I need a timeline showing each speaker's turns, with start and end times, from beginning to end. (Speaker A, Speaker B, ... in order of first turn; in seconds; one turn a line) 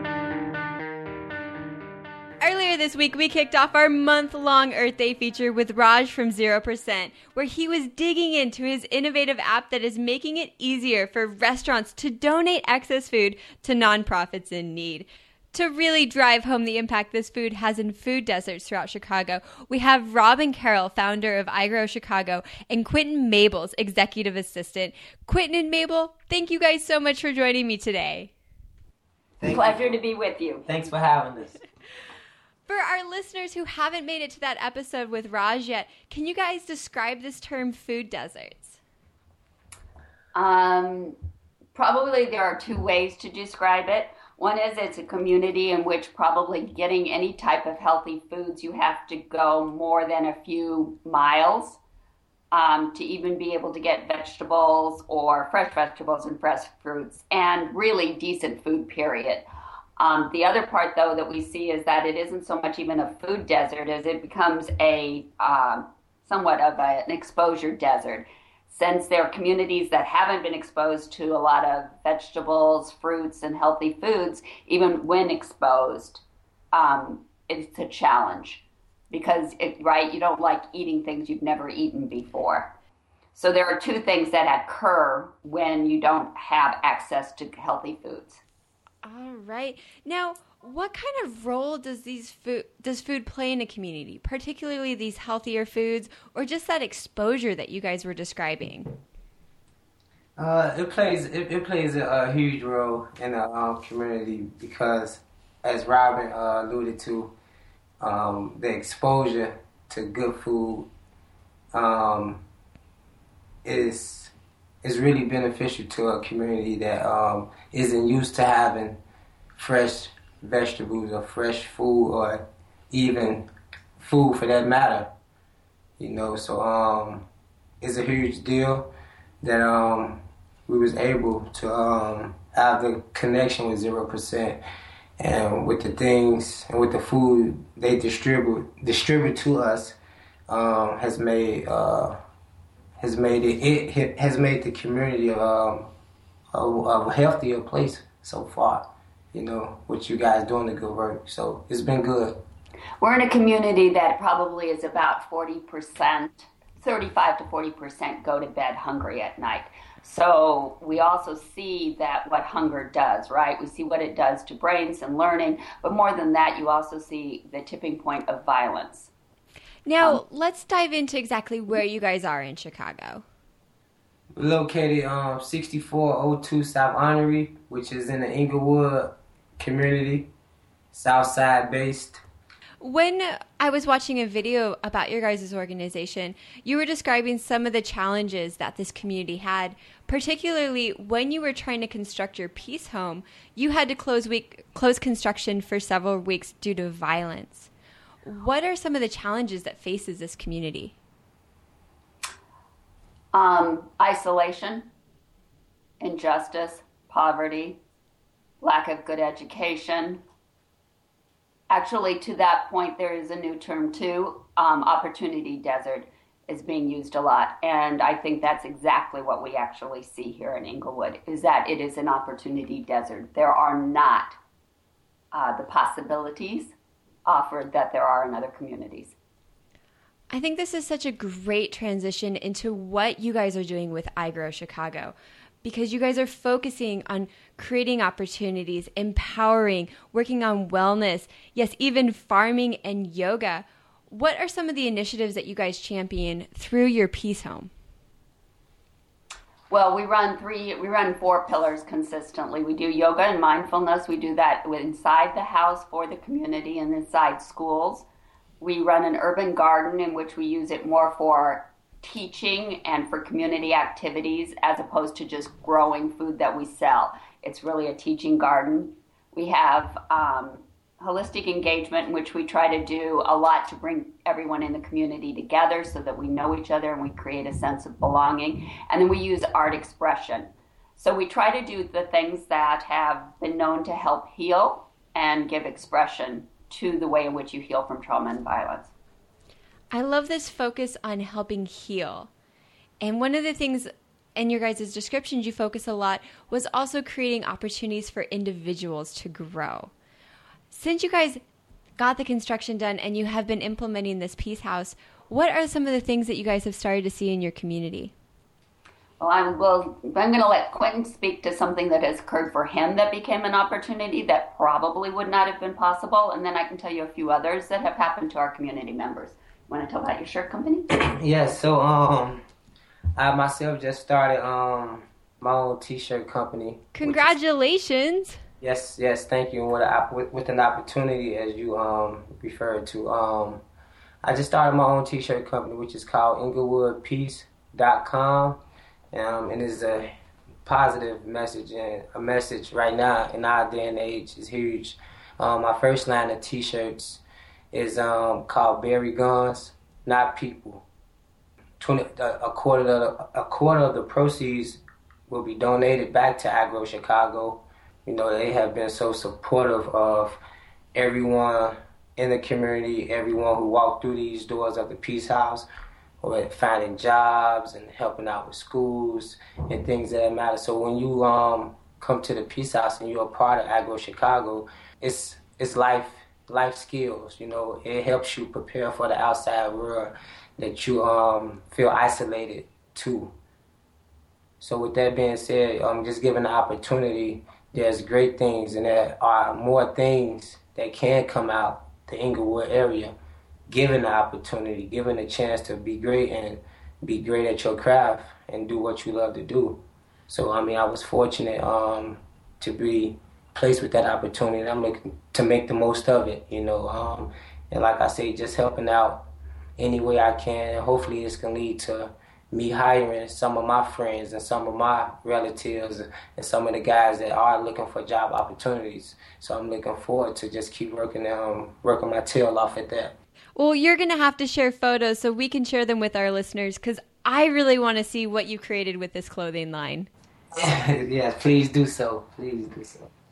Speaker A: 2.4-28.3
Speaker B: 29.4-30.0
Speaker C: 29.4-30.6
Speaker B: 30.6-31.6
Speaker A: 32.7-38.8
Speaker C: 40.3-41.1
Speaker C: 41.7-51.8
Speaker C: 52.5-59.4
Speaker C: 60.0-82.7
Speaker C: 83.3-88.4
Speaker A: 89.0-98.9
Speaker B: 100.4-107.3
Speaker B: 108.0-110.9
Speaker B: 111.7-112.4
Speaker B: 113.6-119.0
Speaker B: 119.5-123.5
Speaker B: 124.0-125.1
Speaker B: 126.0-127.2
Speaker B: 127.8-134.6
Speaker B: 135.2-139.9
Speaker B: 140.5-142.2
Speaker B: 143.0-145.9
Speaker B: 146.5-152.4
Speaker C: 153.0-169.1
Speaker A: 169.8-173.2
Speaker B: 174.3-180.3
Speaker B: 180.9-182.2
Speaker A: 182.8-197.7
Speaker A: 198.2-200.9
Speaker C: 203.3-204.9
Speaker C: 206.0-207.8
Speaker C: 208.6-210.2
Speaker C: 211.7-224.3
Speaker C: 225.3-226.7
Speaker C: 227.2-229.1
Speaker A: 230.3-247.7
Speaker C: 249.7-258.1
Speaker C: 258.6-288.9
Speaker A: 289.9-292.3
Speaker A: 293.0-299.9
Speaker A: 300.7-301.4
Speaker A: 302.0-308.1
Speaker C: 309.2-320.9
Speaker B: 320.9-322.4
Speaker B: 323.2-327.3
Speaker A: 326.9-328.4
Speaker B: 328.6-333.6
Speaker B: 334.2-338.6
Speaker B: 339.1-340.1
Speaker B: 340.6-350.8
Speaker B: 351.8-360.4
Speaker B: 360.9-365.7
Speaker B: 366.2-383.3
Speaker B: 384.6-393.1
Speaker B: 393.7-409.2
Speaker B: 409.8-423.1
Speaker A: 423.6-430.1
Speaker B: 430.5-433.1